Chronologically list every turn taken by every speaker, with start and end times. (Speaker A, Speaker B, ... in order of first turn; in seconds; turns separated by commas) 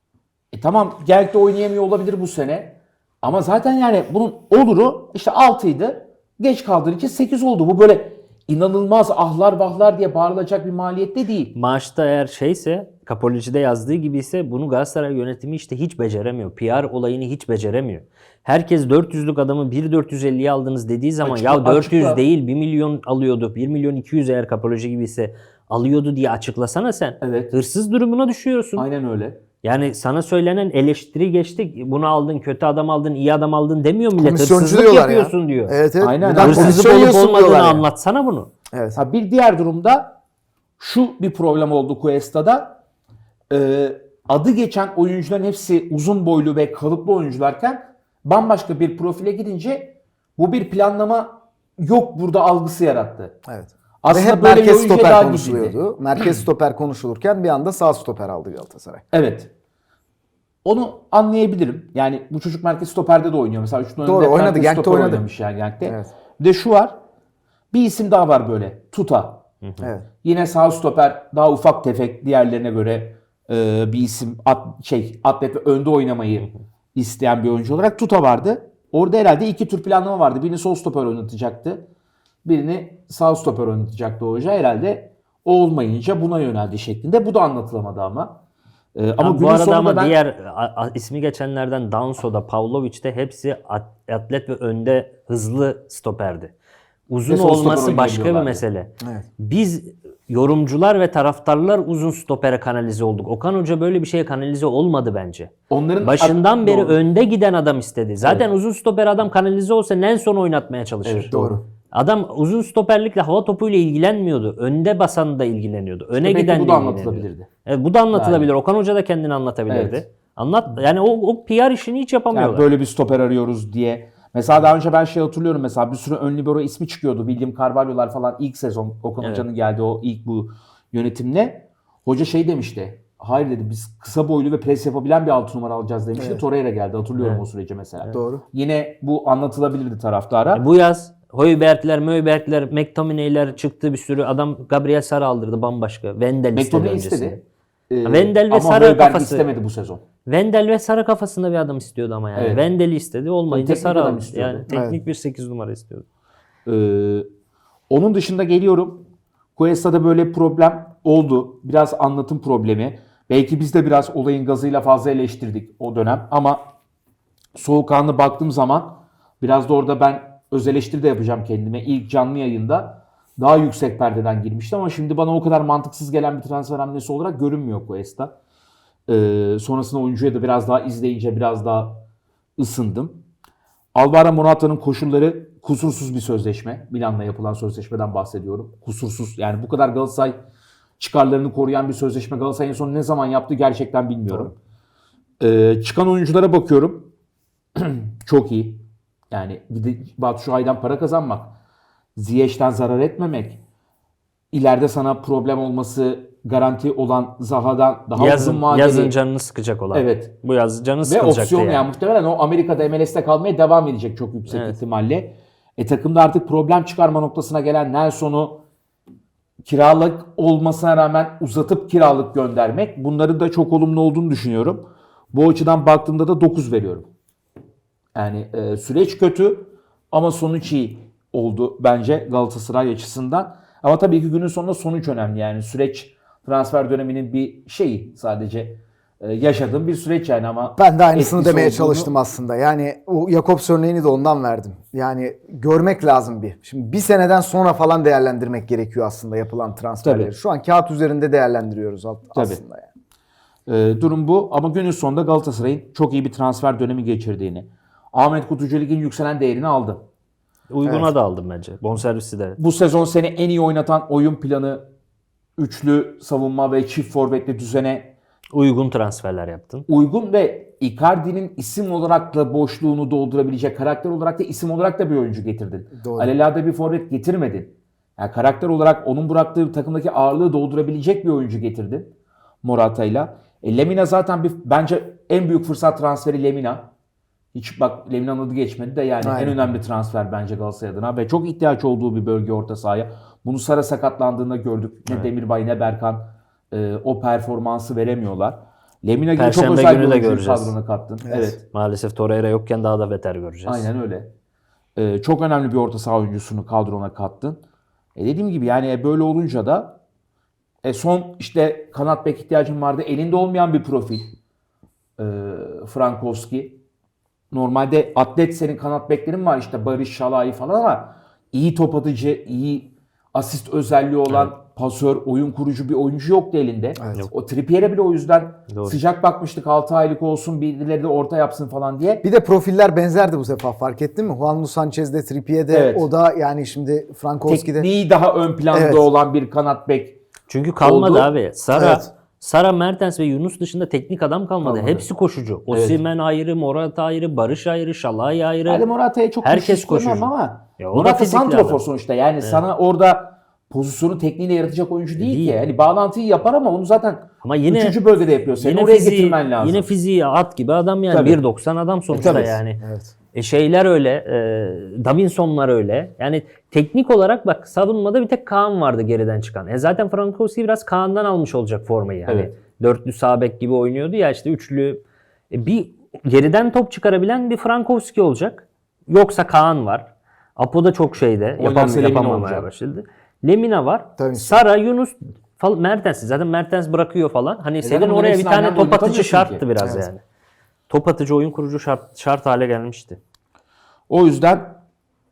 Speaker A: 0.5-11.5, Speaker B: 11.5-28.9, Speaker A: 21.2-22.2, Speaker A: 27.2-27.5, Speaker A: 28.8-29.4, Speaker B: 29.6-35.8, Speaker C: 34.2-37.9, Speaker A: 36.0-37.1, Speaker B: 36.4-38.5, Speaker C: 38.7-39.0, Speaker A: 39.0-40.2, Speaker A: 40.8-42.8, Speaker A: 43.5-53.4, Speaker C: 53.5-59.0, Speaker A: 54.0-55.8, Speaker A: 59.1-59.5, Speaker A: 60.6-67.0, Speaker C: 64.0-65.2, Speaker C: 65.8-66.1, Speaker A: 67.7-69.4, Speaker B: 69.6-69.9, Speaker C: 69.8-70.1, Speaker A: 70.2-81.9, Speaker A: 82.5-88.4, Speaker A: 89.0-90.2, Speaker B: 89.2-96.5, Speaker B: 97.1-111.4, Speaker A: 97.3-98.6, Speaker A: 105.7-107.0, Speaker A: 111.0-111.6, Speaker C: 111.3-111.6, Speaker B: 111.9-122.7, Speaker A: 116.2-117.5, Speaker A: 118.1-118.5, Speaker A: 119.7-120.0, Speaker A: 122.3-140.6, Speaker B: 129.2-129.5, Speaker C: 136.2-136.4, Speaker B: 137.2-137.4, Speaker C: 138.1-138.4, Speaker B: 140.6-147.4, Speaker A: 146.5-150.0, Speaker B: 148.1-149.5, Speaker B: 150.3-156.1, Speaker A: 152.4-152.7, Speaker A: 153.5-154.7, Speaker C: 154.7-155.0, Speaker A: 156.7-157.3, Speaker A: 157.9-159.0, Speaker A: 159.6-166.7, Speaker A: 167.6-178.3, Speaker A: 179.1-182.0, Speaker A: 182.6-183.2, Speaker A: 183.9-190.4, Speaker A: 191.0-194.6, Speaker A: 195.4-197.1, Speaker A: 197.8-201.6, Speaker A: 202.2-203.6, Speaker A: 204.5-209.1, Speaker B: 208.2-211.9, Speaker A: 209.9-210.4, Speaker A: 211.0-218.6, Speaker B: 214.5-214.8, Speaker A: 219.6-227.1, Speaker A: 228.2-242.1, Speaker C: 240.8-252.9, Speaker A: 250.0-250.3, Speaker A: 252.3-252.6, Speaker A: 253.7-260.0, Speaker B: 260.7-262.6, Speaker C: 260.9-261.1, Speaker A: 262.6-264.9, Speaker A: 265.6-268.1, Speaker B: 268.5-269.9, Speaker A: 269.9-282.1, Speaker C: 275.9-276.3, Speaker A: 282.6-286.9, Speaker A: 287.6-301.6, Speaker C: 289.2-289.6, Speaker B: 299.4-300.8, Speaker C: 301.2-301.6, Speaker B: 301.6-303.9, Speaker A: 303.7-304.3, Speaker A: 305.0-307.6, Speaker A: 308.1-310.0, Speaker A: 310.8-314.3, Speaker A: 315.2-316.8, Speaker A: 317.5-332.2, Speaker C: 327.0-327.3, Speaker B: 328.7-329.0, Speaker C: 332.2-337.9, Speaker A: 335.7-336.1, Speaker A: 337.5-340.2, Speaker C: 338.7-339.1, Speaker B: 340.5-348.9, Speaker A: 340.8-341.3, Speaker C: 341.8-342.1, Speaker A: 344.6-345.1, Speaker A: 345.7-346.0, Speaker A: 348.7-359.9, Speaker B: 349.4-351.8, Speaker B: 355.2-355.6, Speaker B: 357.4-358.0, Speaker B: 358.6-362.8, Speaker A: 361.1-361.4, Speaker C: 362.1-363.1, Speaker A: 362.1-362.6, Speaker B: 363.3-390.2, Speaker A: 372.3-372.5, Speaker A: 381.6-382.7, Speaker C: 384.2-384.6, Speaker A: 387.8-389.6, Speaker C: 389.8-390.1, Speaker B: 390.9-393.2, Speaker A: 394.1-394.8